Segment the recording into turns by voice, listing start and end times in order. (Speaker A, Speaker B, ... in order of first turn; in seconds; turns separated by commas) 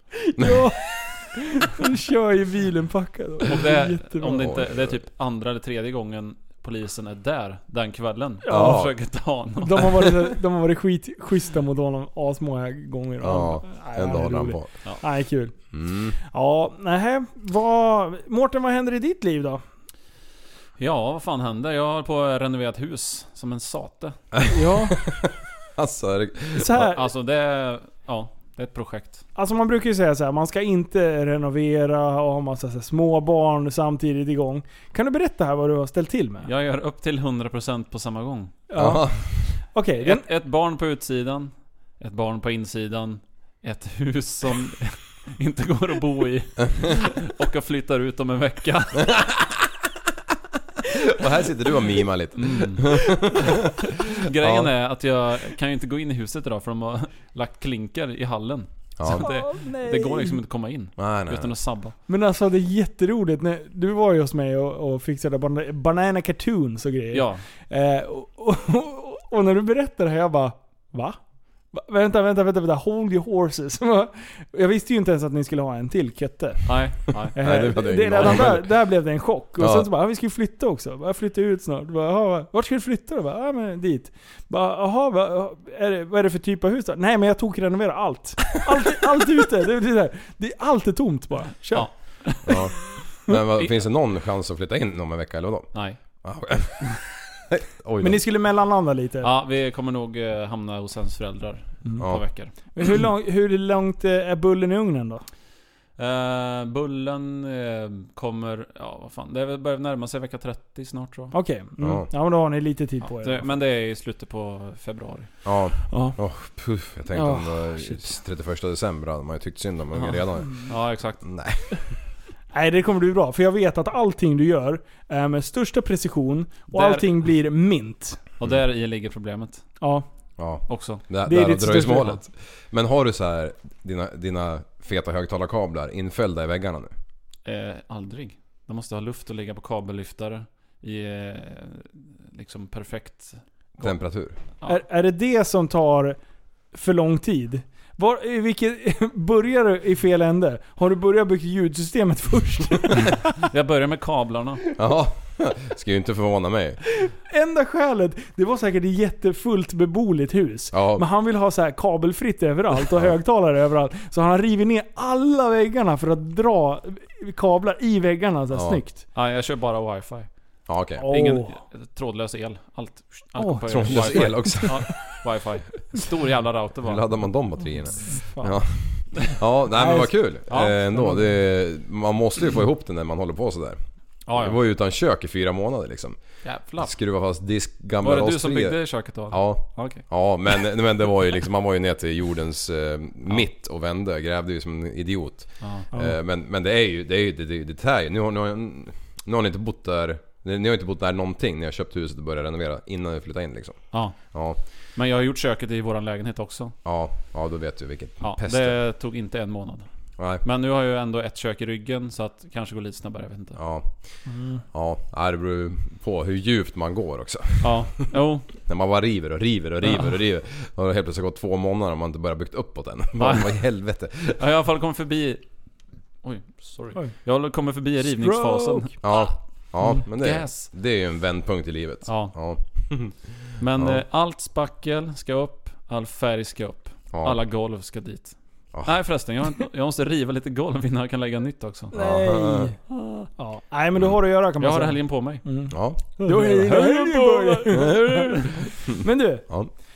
Speaker A: 0.2-4.5, Speaker B: 3.5-10.1, Speaker C: 4.4-5.0, Speaker A: 8.4-8.9, Speaker C: 8.5-8.9, Speaker A: 9.6-15.6, Speaker C: 13.2-14.7, Speaker C: 15.7-16.2, Speaker A: 16.2-19.6, Speaker B: 20.8-24.2, Speaker C: 24.3-26.9, Speaker A: 24.5-25.0, Speaker A: 26.6-27.0, Speaker B: 26.9-29.2, Speaker A: 29.4-36.5, Speaker B: 36.4-38.6, Speaker A: 38.7-40.2, Speaker C: 38.8-39.5, Speaker B: 40.0-49.2, Speaker C: 51.0-53.5, Speaker B: 52.4-62.0, Speaker C: 54.4-54.7, Speaker C: 59.0-59.3, Speaker A: 59.2-60.4, Speaker C: 61.0-61.5, Speaker A: 62.1-71.2, Speaker B: 67.1-67.4, Speaker A: 71.7-91.9, Speaker B: 76.7-77.4, Speaker C: 77.4-78.7, Speaker C: 79.6-79.9, Speaker B: 91.7-92.7, Speaker C: 92.5-98.2, Speaker B: 95.7-96.0, Speaker A: 98.0-99.3, Speaker B: 99.2-102.5, Speaker A: 101.8-105.2, Speaker B: 106.0-111.3, Speaker A: 111.3-113.5, Speaker C: 111.8-112.1, Speaker B: 113.1-115.4, Speaker C: 115.4-121.8, Speaker A: 115.9-116.2, Speaker A: 117.1-118.0, Speaker B: 119.9-121.2, Speaker A: 122.5-128.2, Speaker B: 126.7-127.2, Speaker B: 128.4-129.8, Speaker A: 129.8-130.1, Speaker C: 130.4-136.9, Speaker B: 130.7-131.0, Speaker A: 131.2-132.2, Speaker B: 137.4-143.9, Speaker C: 143.8-144.4, Speaker A: 144.7-146.2, Speaker A: 146.7-153.2, Speaker B: 153.4-154.6, Speaker C: 154.8-156.8, Speaker A: 156.9-169.0, Speaker C: 160.7-161.0, Speaker C: 168.5-168.8, Speaker B: 169.2-170.3, Speaker C: 170.7-171.1, Speaker A: 171.0-171.6, Speaker B: 171.1-177.1, Speaker A: 173.4-174.9, Speaker C: 173.7-175.0, Speaker C: 176.8-204.6, Speaker A: 178.1-178.6, Speaker A: 179.8-180.1, Speaker B: 180.5-180.8, Speaker A: 180.9-181.2, Speaker B: 184.3-184.6, Speaker B: 186.4-187.0, Speaker B: 188.0-190.1, Speaker B: 195.6-195.9, Speaker B: 203.9-206.8, Speaker C: 206.8-208.8, Speaker B: 208.2-209.9, Speaker C: 210.2-210.4, Speaker B: 210.4-213.6, Speaker C: 213.6-217.9, Speaker A: 214.3-214.6, Speaker B: 217.6-218.6, Speaker C: 218.7-224.4, Speaker B: 223.2-223.8, Speaker B: 224.4-225.4, Speaker B: 226.2-229.3, Speaker A: 228.0-228.9, Speaker C: 229.0-234.0, Speaker B: 229.9-230.7, Speaker B: 232.1-232.4, Speaker B: 233.6-241.9, Speaker C: 237.1-237.4, Speaker C: 238.7-239.0, Speaker C: 241.9-242.7, Speaker A: 241.9-242.8, Speaker A: 243.4-249.5, Speaker B: 244.6-248.5, Speaker C: 245.7-246.0, Speaker C: 247.7-248.0